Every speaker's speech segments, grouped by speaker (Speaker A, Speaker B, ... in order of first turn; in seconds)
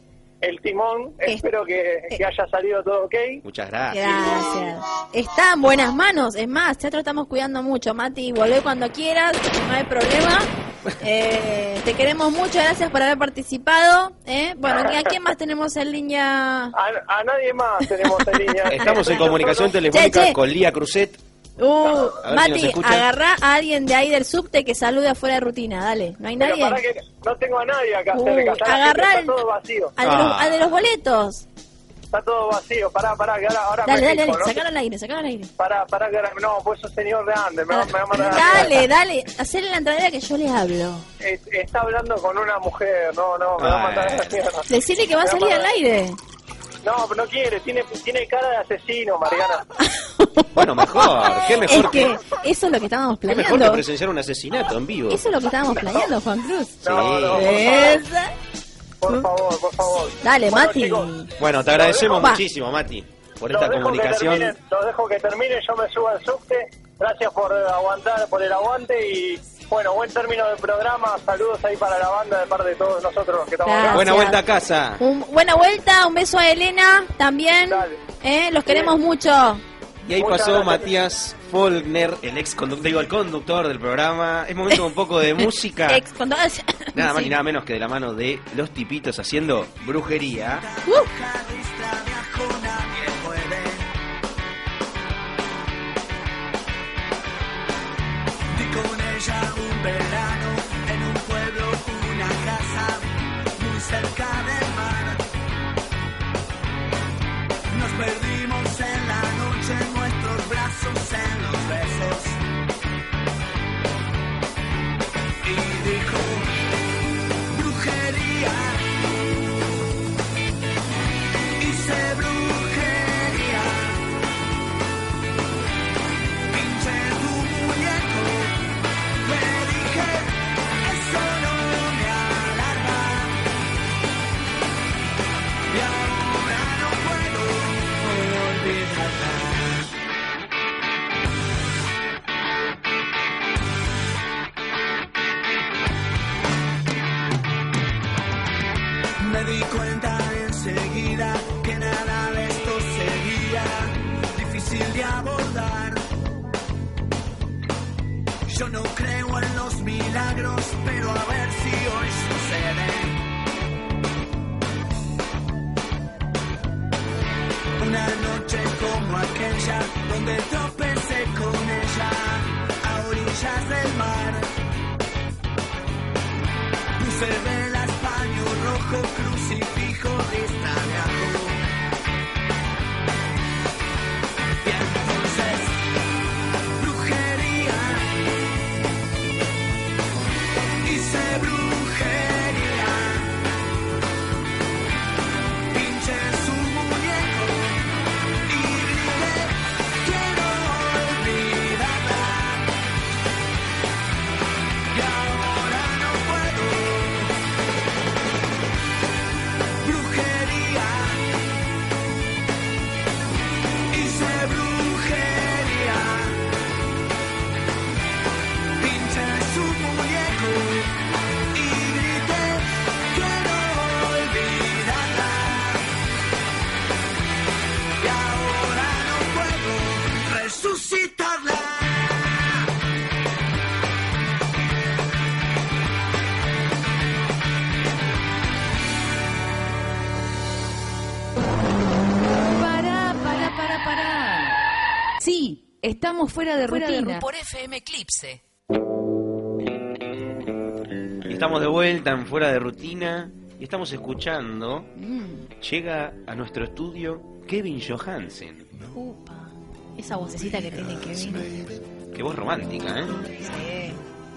Speaker A: 0.4-3.4, 16.7-19.7, 26.4-29.9, 32.1-34.6, 35.6-38.8, 41.2-44.6, 45.2-45.7, 46.8-49.6, 56.8-58.0, 59.0-61.1, 61.7-62.2, 63.5-74.2, 77.7-78.0, 78.7-78.9, 80.1-80.9
Speaker B: 3.4-4.5, 18.6-21.2, 22.2-23.1, 30.0-30.6, 38.2-38.7, 43.6-44.4, 50.5-52.2, 53.3-55.2, 56.8-57.7, 61.4-64.6, 73.9-75.0, 80.0-86.0, 86.9-90.6, 251.2-254.9, 255.6-258.7, 262.1-263.2
Speaker C: 3.9-16.8, 18.0-20.4, 21.6-26.8, 28.1-29.4, 30.0-31.4, 33.8-35.5, 37.7-41.1, 44.7-46.2, 49.8-53.8, 55.1-58.3, 60.2-61.3, 62.1-62.4, 73.6-74.4, 75.0-79.6, 85.9-87.3, 254.9-255.5, 258.9-261.6, 263.4-264.0
Speaker D: 90.5-93.9, 98.5-105.2, 107.7-112.4, 115.4-116.5, 117.5-118.8, 121.6-124.0, 126.5-128.6, 129.2-133.4, 135.7-139.9, 149.2-156.0, 158.5-163.2, 167.8-174.5, 177.0-181.6, 184.6-185.8, 186.8-188.1, 190.8-193.3, 195.7-197.8, 198.5-202.7, 204.9-207.3, 209.8-211.2, 213.9-216.4, 218.8-220.9, 221.5-225.8, 228.0-232.6
Speaker E: 242.5-244.6, 245.2-248.4